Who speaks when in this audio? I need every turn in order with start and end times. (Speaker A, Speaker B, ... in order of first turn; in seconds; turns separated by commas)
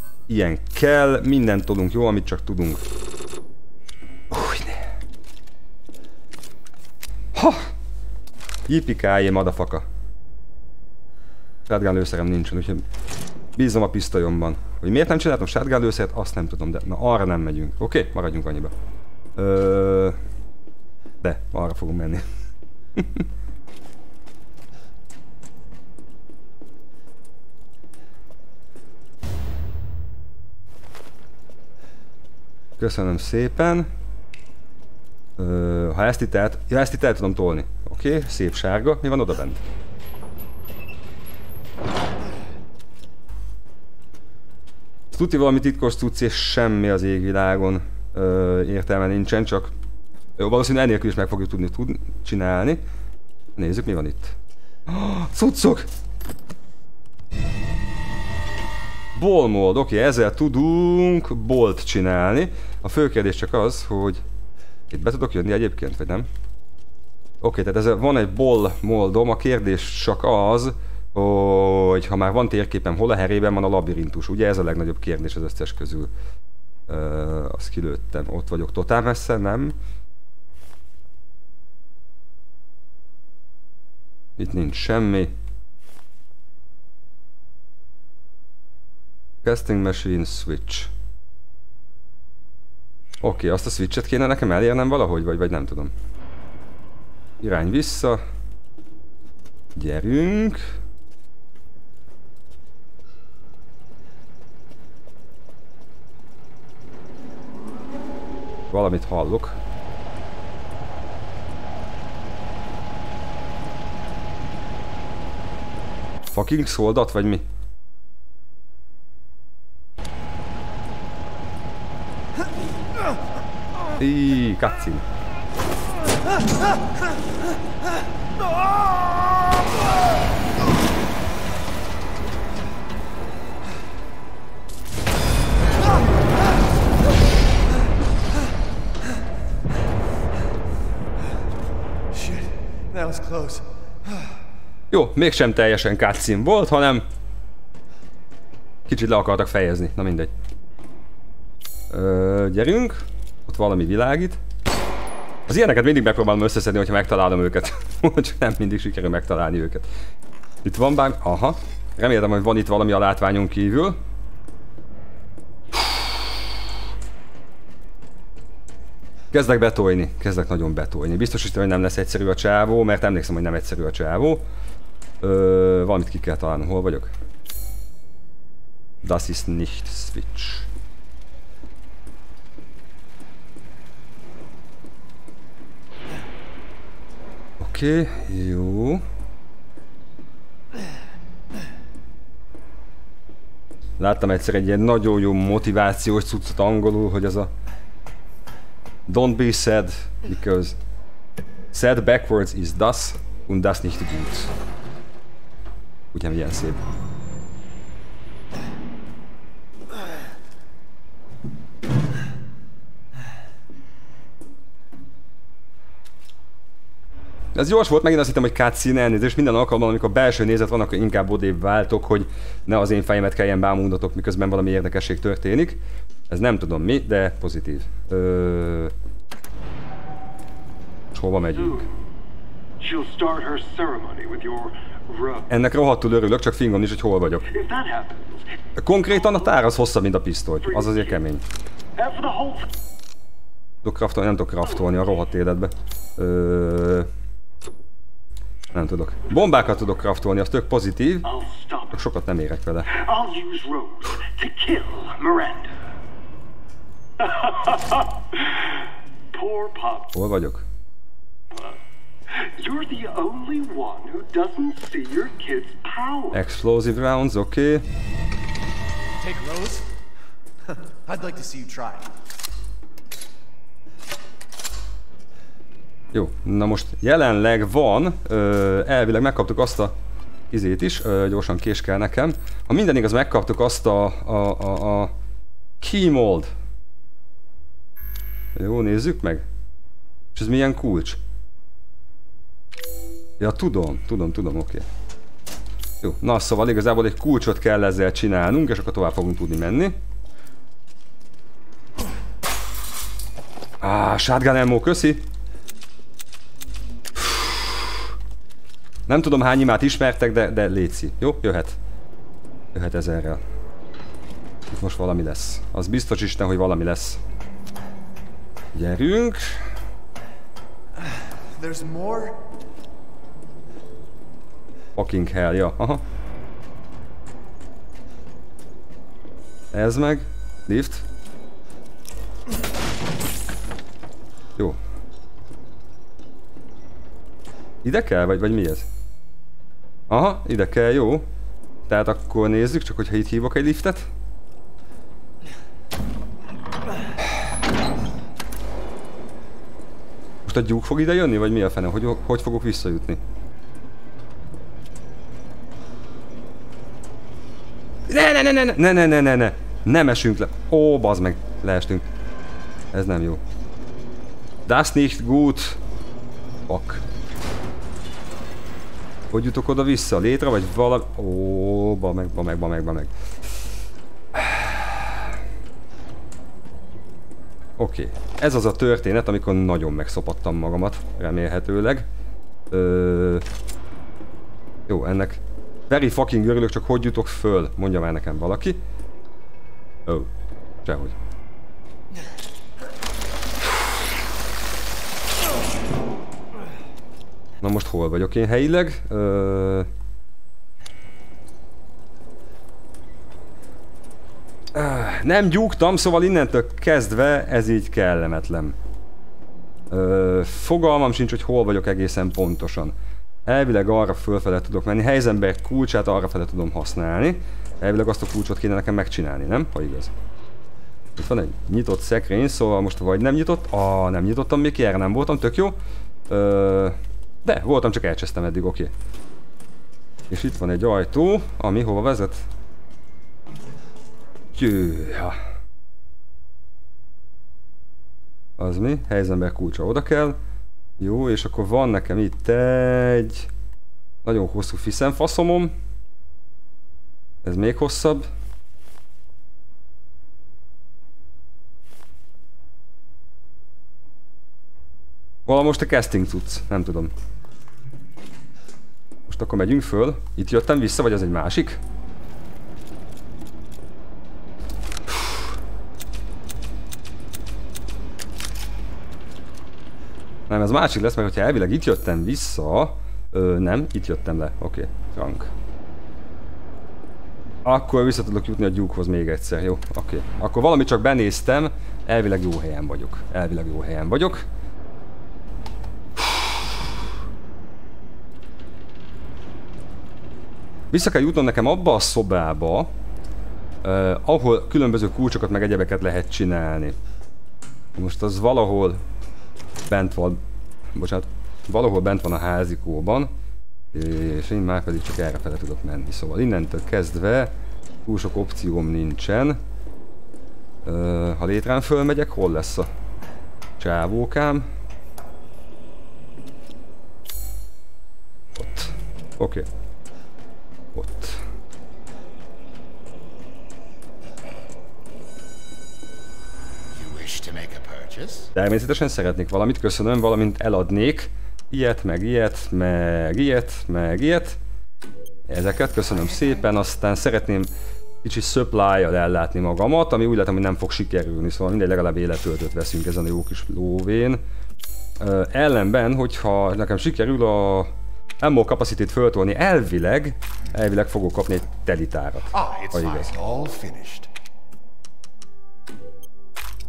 Speaker A: 0.3-2.8, Speaker A: 4.3-4.9, Speaker A: 7.3-7.7, Speaker A: 8.7-9.8, Speaker A: 11.7-12.8, Speaker A: 13.6-18.7, Speaker A: 19.4-20.2, Speaker A: 21.2-22.2, Speaker A: 22.9-23.2, Speaker A: 32.8-33.9, Speaker A: 35.4-39.6, Speaker A: 45.1-49.7, Speaker A: 50.4-52.8, Speaker A: 53.5-54.3, Speaker A: 54.9-55.9, Speaker A: 59.1-64.2, Speaker A: 64.9-66.3, Speaker A: 67.4-76.1, Speaker A: 76.9-79.8, Speaker A: 84.4-85.3, Speaker A: 89.4-90.9, Speaker A: 93.2-95.9, Speaker A: 97.4-98.2, Speaker A: 99.8-100.7, Speaker A: 108.7-109.6, Speaker A: 116.3-117.4, Speaker A: 124.0-125.0, Speaker B: 142.1-144.3, Speaker A: 144.9-147.0, Speaker A: 148.9-150.3, Speaker A: 151.9-154.4, Speaker A: 155.5-159.9, Speaker A: 160.6-164.0, Speaker A: 169.3-174.4, Speaker A: 175.2-177.1, Speaker A: 179.0-180.7, Speaker A: 187.6-189.0, Speaker A: 194.0-197.5, Speaker A: 199.1-200.8, Speaker A: 201.7-204.5, Speaker A: 206.1-206.8, Speaker A: 217.5-228.9, Speaker A: 231.1-231.9, Speaker C: 231.5-231.9, Speaker C: 232.8-235.5, Speaker A: 235.5-237.5, Speaker C: 237.5-238.5, Speaker A: 238.8-241.4, Speaker C: 239.1-239.4, Speaker C: 240.6-241.2, Speaker C: 241.9-242.7, Speaker A: 243.8-247.1, Speaker A: 248.7-251.3, Speaker C: 251.3-252.0, Speaker A: 251.9-252.9, Speaker C: 252.9-255.7, Speaker C: 257.2-260.1, Speaker A: 260.1-260.6, Speaker C: 262.3-266.4, Speaker A: 266.3-267.8, Speaker B: 269.2-269.9, Speaker B: 270.7-272.1, Speaker A: 276.1-279.9, Speaker A: 280.5-285.1, Speaker A: 285.8-286.5, Speaker A: 288.5-289.4, Speaker A: 290.3-291.2, Speaker A: 293.4-294.9, Speaker A: 296.0-299.9, Speaker A: 303.8-305.2, Speaker A: 307.2-307.8, Speaker A: 309.1-311.8, Speaker A: 312.7-313.4, Speaker A: 314.7-317.2, Speaker A: 318.7-319.6, Speaker B: 321.0-322.5, Speaker A: 324.9-326.0, Speaker A: 329.7-331.0, Speaker A: 337.8-338.9, Speaker A: 340.1-341.2, Speaker A: 341.9-344.1, Speaker A: 350.4-353.2, Speaker A: 358.1-362.0, Speaker A: 362.9-363.4, Speaker A: 364.6-365.8, Speaker A: 366.7-367.0, Speaker A: 369.3-373.1, Speaker A: 374.3-375.2, Speaker A: 377.8-382.1, Speaker A: 382.7-383.4, Speaker A: 384.9-388.8, Speaker A: 390.8-391.1, Speaker A: 397.6-399.9, Speaker A: 404.7-408.8, Speaker A: 409.9-412.9, Speaker A: 413.4-420.1, Speaker A: 421.2-425.8, Speaker A: 426.3-428.9, Speaker A: 430.3-432.5, Speaker A: 434.5-435.4, Speaker A: 438.6-440.4, Speaker A: 441.0-443.5, Speaker A: 444.2-445.7, Speaker A: 447.4-448.3, Speaker A: 455.4-457.1, Speaker A: 459.3-461.8, Speaker A: 470.5-475.5, Speaker A: 477.6-484.4, Speaker A: 490.9-492.9, Speaker A: 493.8-496.9, Speaker A: 497.9-499.0, Speaker A: 499.9-500.4, Speaker A: 500.9-503.3, Speaker A: 503.9-507.5, Speaker A: 508.1-509.6, Speaker A: 510.8-512.9, Speaker A: 513.8-514.7, Speaker A: 518.6-519.6, Speaker A: 520.9-521.4, Speaker B: 526.9-528.5, Speaker A: 528.5-534.6, Speaker A: 535.5-537.7, Speaker A: 538.2-544.4, Speaker A: 545.2-553.3, Speaker B: 552.5-554.3